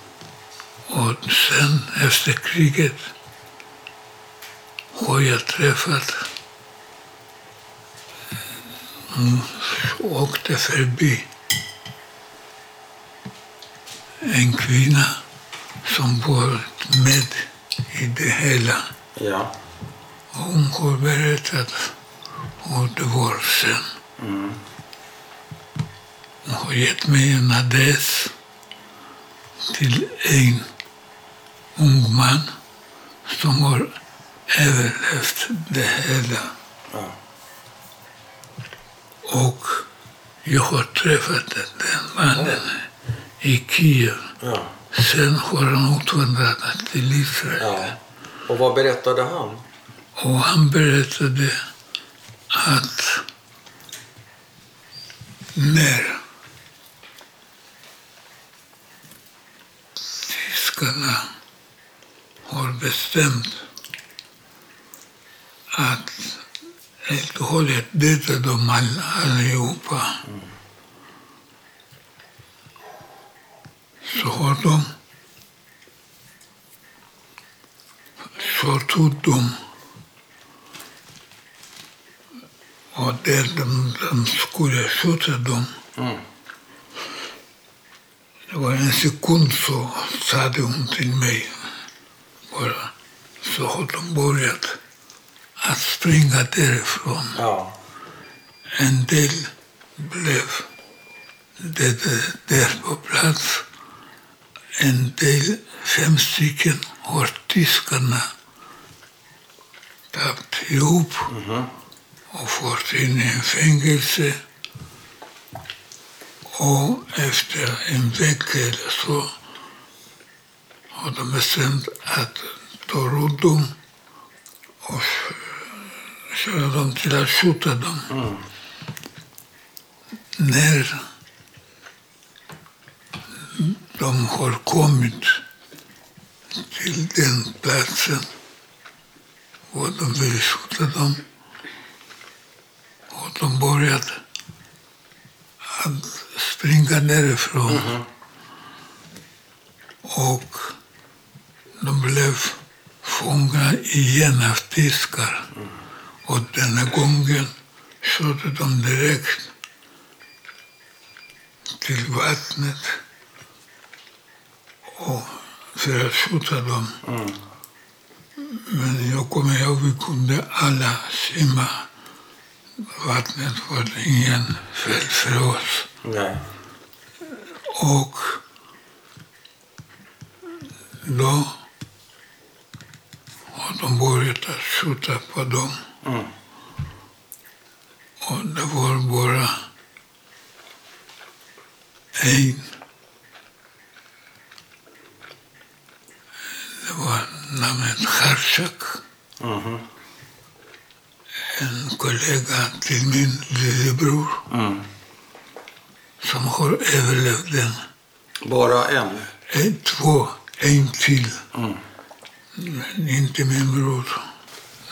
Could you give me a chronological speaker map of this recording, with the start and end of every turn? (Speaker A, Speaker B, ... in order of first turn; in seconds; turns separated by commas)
Speaker A: 0.9-3.1, Speaker A: 4.9-6.3, Speaker A: 9.1-11.3, Speaker A: 14.2-15.2, Speaker A: 15.8-18.9, Speaker B: 19.2-19.5, Speaker A: 20.3-21.9, Speaker A: 22.6-23.9, Speaker B: 24.2-24.6, Speaker A: 26.4-28.3, Speaker A: 29.7-30.7, Speaker A: 31.8-32.5, Speaker A: 33.3-33.9, Speaker A: 34.5-36.5, Speaker B: 36.9-37.2, Speaker A: 39.2-39.9, Speaker A: 40.4-42.9, Speaker B: 42.3-42.6, Speaker A: 43.4-44.3, Speaker B: 44.4-44.8, Speaker A: 44.9-47.9, Speaker B: 47.6-49.6, Speaker A: 50.2-51.6, Speaker A: 52.5-53.3, Speaker A: 55.5-56.2, Speaker A: 60.1-61.4, Speaker A: 62.5-63.7, Speaker A: 65.7-66.5, Speaker A: 67.0-70.2, Speaker A: 74.0-74.9, Speaker A: 78.3-79.6, Speaker A: 82.9-85.7, Speaker B: 86.0-86.2, Speaker A: 88.5-91.7, Speaker A: 92.5-94.8, Speaker A: 95.6-97.4, Speaker B: 97.4-97.8, Speaker A: 98.8-100.7, Speaker A: 101.6-103.7, Speaker A: 104.8-108.3, Speaker A: 110.1-111.3, Speaker B: 111.3-111.7, Speaker A: 112.3-114.4, Speaker A: 116.5-119.3, Speaker A: 120.9-123.7, Speaker A: 124.8-128.1, Speaker B: 128.1-128.4, Speaker A: 130.4-131.1, Speaker A: 133.5-135.4, Speaker A: 136.5-138.3, Speaker A: 139.7-141.2, Speaker A: 143.1-144.2, Speaker A: 145.7-147.9, Speaker B: 147.7-148.1, Speaker A: 150.0-150.8, Speaker A: 151.8-155.5, Speaker A: 156.2-159.5, Speaker A: 161.8-163.0, Speaker A: 165.0-167.0, Speaker B: 167.0-167.4, Speaker A: 168.4-171.9, Speaker A: 172.8-175.9, Speaker B: 176.0-176.4, Speaker A: 177.7-178.4, Speaker A: 181.0-181.5, Speaker A: 183.5-185.8, Speaker B: 186.0-186.3, Speaker A: 188.2-189.7, Speaker A: 192.2-192.7, Speaker A: 196.8-199.0, Speaker B: 199.4-199.8, Speaker A: 201.5-204.4, Speaker B: 204.5-204.9, Speaker A: 206.2-207.8, Speaker B: 208.4-209.3, Speaker A: 209.5-211.4, Speaker B: 211.5-211.8, Speaker A: 212.6-214.2